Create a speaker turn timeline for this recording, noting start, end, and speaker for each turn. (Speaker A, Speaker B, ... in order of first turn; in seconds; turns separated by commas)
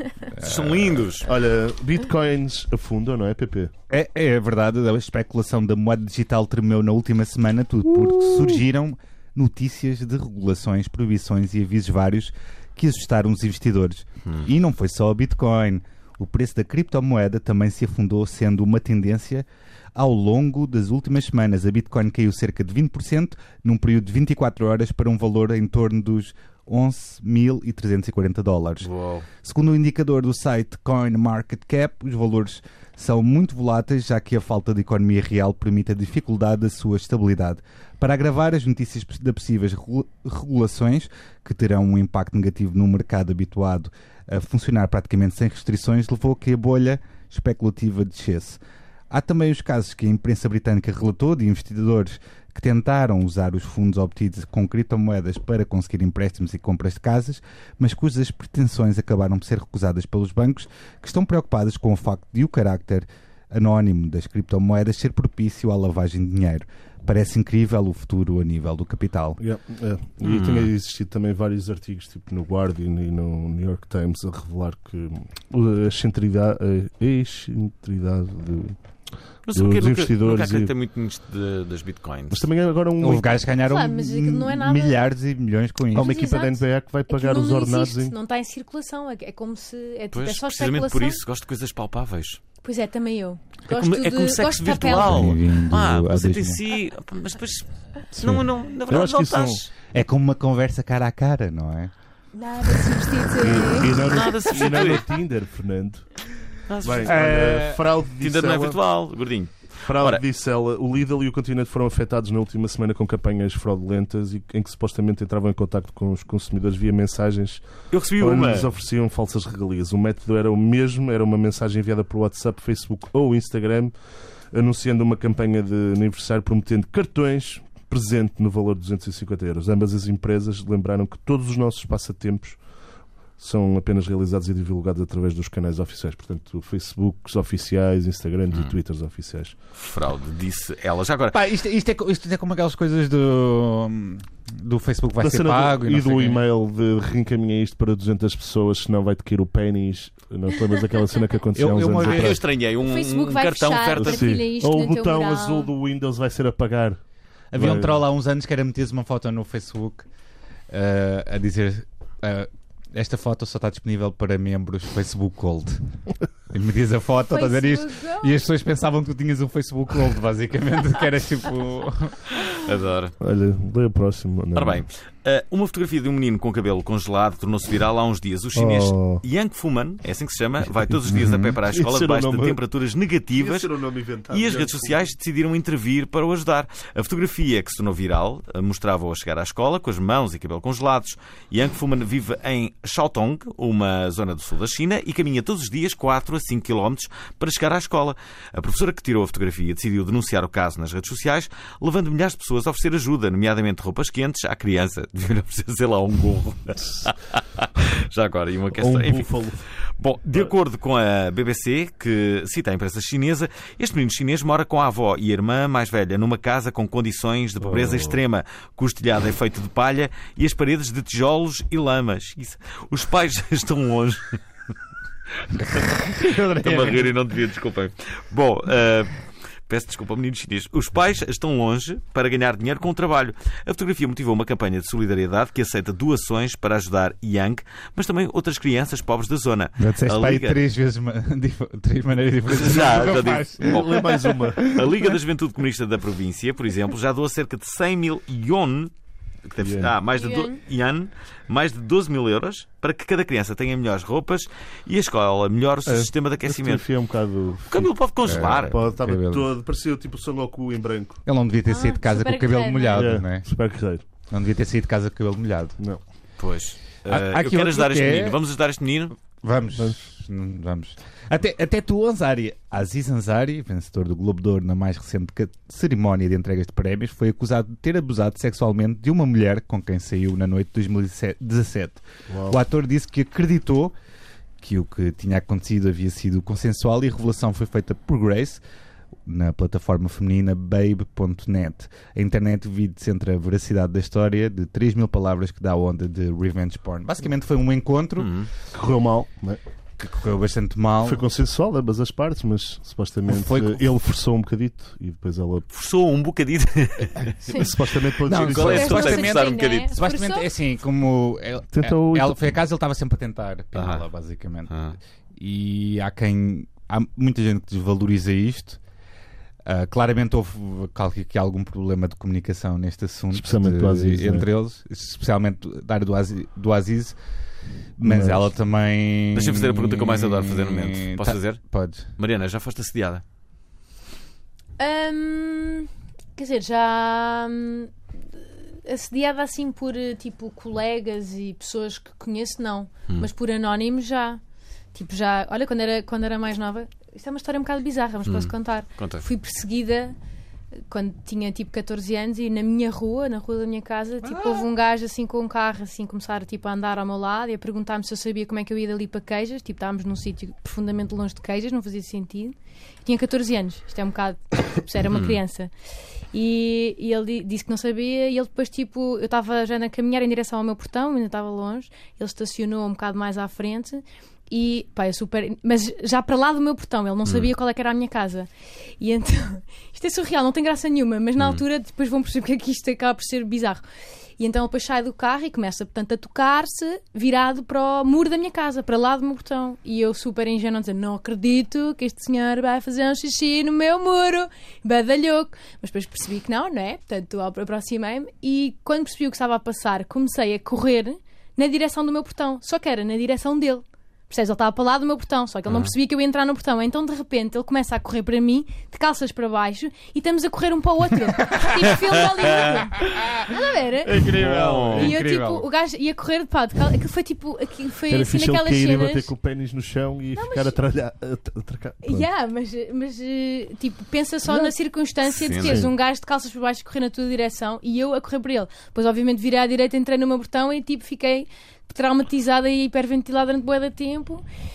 Speaker A: 0.3-1.1, Speaker B: 0.4-1.3, Speaker C: 1.2-3.7, Speaker A: 3.9-69.4, Speaker B: 28.8-29.3, Speaker C: 69.4-78.8, Speaker B: 70.2-70.7, Speaker B: 79.5-82.5, Speaker C: 79.5-80.7, Speaker C: 82.3-83.4, Speaker A: 83.0-86.2, Speaker D: 83.6-85.0, Speaker C: 85.9-88.2, Speaker D: 86.0-91.2, Speaker B: 90.1-92.4, Speaker D: 92.6-95.3, Speaker B: 93.7-99.7, Speaker A: 94.8-96.6, Speaker C: 98.2-99.6, Speaker A: 99.9-101.9, Speaker D: 102.3-104.1, Speaker C: 103.4-106.1, Speaker B: 103.9-105.2, Speaker B: 106.7-107.3, Speaker C: 106.8-108.8, Speaker A: 107.0-107.8, Speaker B: 108.2-110.2, Speaker C: 109.8-117.6, Speaker B: 117.9-118.7, Speaker C: 118.2-123.9, Speaker C: 124.5-132.6, Speaker C: 133.4-139.6, Speaker B: 139.8-141.4, Speaker A: 141.3-146.5, Speaker C: 145.2-152.4, Speaker A: 151.6-152.4, Speaker B: 152.0-154.4, Speaker D: 152.8-155.7, Speaker C: 154.0-157.0, Speaker A: 157.5-160.1, Speaker C: 157.6-158.0, Speaker A: 160.7-165.8, Speaker A: 166.5-172.4, Speaker D: 167.3-168.4, Speaker B: 172.5-173.2, Speaker C: 173.2-174.8, Speaker B: 174.5-183.7, Speaker C: 178.6-179.2, Speaker A: 181.1-181.6, Speaker C: 181.7-182.6, Speaker C: 183.3-185.1, Speaker B: 184.3-224.4, Speaker C: 208.8-209.6, Speaker C: 217.7-218.2, Speaker A: 225.6-227.1, Speaker B: 226.6-240.6, Speaker A: 239.8-245.1, Speaker B: 242.5-248.9, Speaker C: 242.8-244.8, Speaker B: 249.4-256.9, Speaker C: 249.6-249.9, Speaker D: 250.1-250.6, Speaker C: 255.9-261.2, Speaker B: 257.7-258.8, Speaker A: 258.2-259.5, Speaker A: 261.3-263.5, Speaker D: 261.7-263.1, Speaker C: 262.9-264.1, Speaker A: 264.3-265.8, Speaker B: 266.4-269.2, Speaker A: 267.1-268.4, Speaker A: 269.4-283.9, Speaker C: 282.3-282.6, Speaker A: 284.6-288.6, Speaker A: 289.3-298.4, Speaker B: 298.2-298.5, Speaker C: 298.7-299.6, Speaker A: 300.0-301.2, Speaker C: 301.0-305.6, Speaker A: 303.3-303.8, Speaker B: 305.7-307.5, Speaker D: 307.5-307.7, Speaker C: 307.5-309.1, Speaker A: 308.2-314.7, Speaker B: 308.3-309.9, Speaker D: 308.6-310.5, Speaker C: 311.7-312.4, Speaker B: 313.8-314.1, Speaker B: 314.7-315.0, Speaker A: 315.4-318.8, Speaker A: 319.7-327.2, Speaker C: 323.3-324.5, Speaker A: 328.0-332.1, Speaker C: 328.1-328.4, Speaker B: 329.3-331.6, Speaker B: 332.2-333.2, Speaker D: 334.8-344.4, Speaker D: 344.9-350.1, Speaker B: 348.3-349.2, Speaker D: 350.9-365.7, Speaker A: 354.4-354.6, Speaker B: 365.1-365.4, Speaker D: 366.3-378.5, Speaker B: 377.2-377.5, Speaker D: 379.0-383.8, Speaker D: 384.4-414.3, Speaker B: 412.4-412.8, Speaker A: 413.0-413.5, Speaker A: 414.1-415.7, Speaker B: 414.2-415.2, Speaker D: 414.9-419.3, Speaker C: 418.1-422.3, Speaker D: 420.4-420.8, Speaker D: 422.0-434.4, Speaker B: 425.3-425.8, Speaker C: 425.6-425.9